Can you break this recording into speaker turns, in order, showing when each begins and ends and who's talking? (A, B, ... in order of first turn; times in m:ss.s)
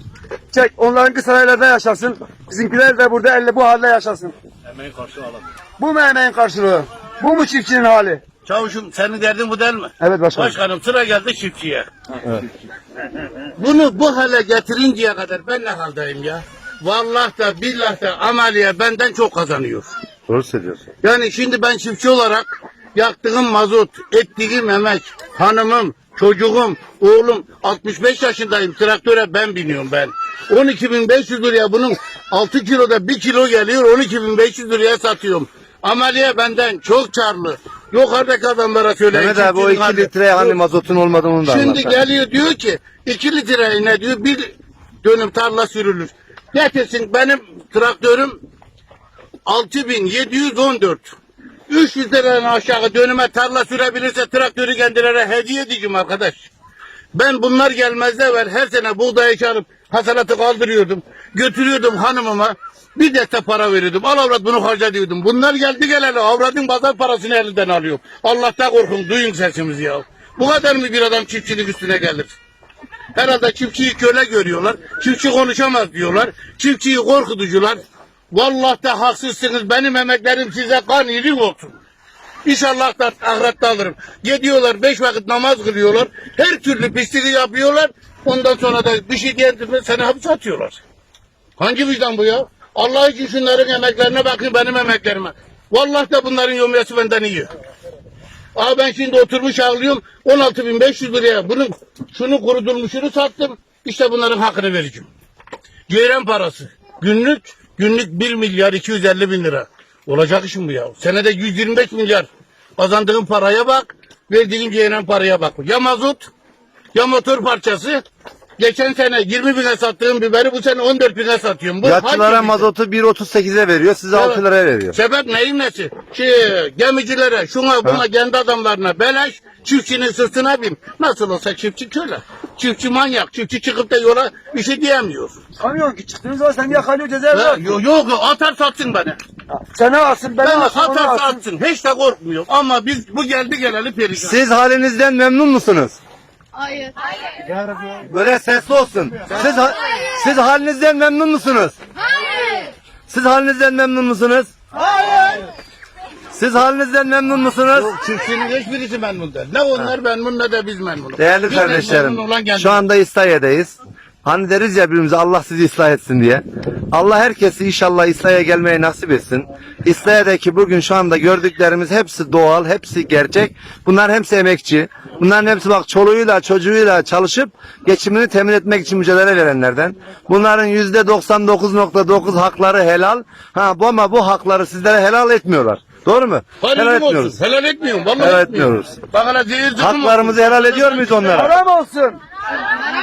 0:00.5-0:04.3 A
0:04.7-0:05.4 B
0:05.8-0:08.2 A
0:08.4-0:11.9 B
0:10.0-0:10.6 A
0:13.6-0:19.9 B
0:20.3-0:20.8 C
0:21.0-0:40.6 B
0:39.1-0:42.0 C
0:41.4-0:48.4 B
0:49.4-0:51.1 B
0:51.7-0:56.5 B
0:57.1-1:12.3 B
1:13.1-1:21.8 B
1:22.4-1:30.8 B
1:31.6-1:37.5 B
1:38.6-1:45.1 B
1:45.9-1:56.3 B
1:56.9-1:58.0 B
1:58.6-2:02.7 B
2:01.8-2:05.0 C
2:04.1-2:04.4 B
2:04.9-2:15.4 B
2:15.6-2:17.8 A
2:17.3-2:19.2 B
2:19.5-2:21.4 A
2:20.4-2:24.4 B
2:24.1-2:26.0 C
2:28.0-2:31.8 C
2:33.1-2:34.5 C
2:35.0-2:35.4 B
2:36.3-2:37.9 C
2:37.7-2:42.8 B
2:41.2-3:07.4 C
3:06.6-3:11.5 B
3:08.2-3:09.0 C
3:09.8-3:11.5 C
3:11.3-3:12.2 A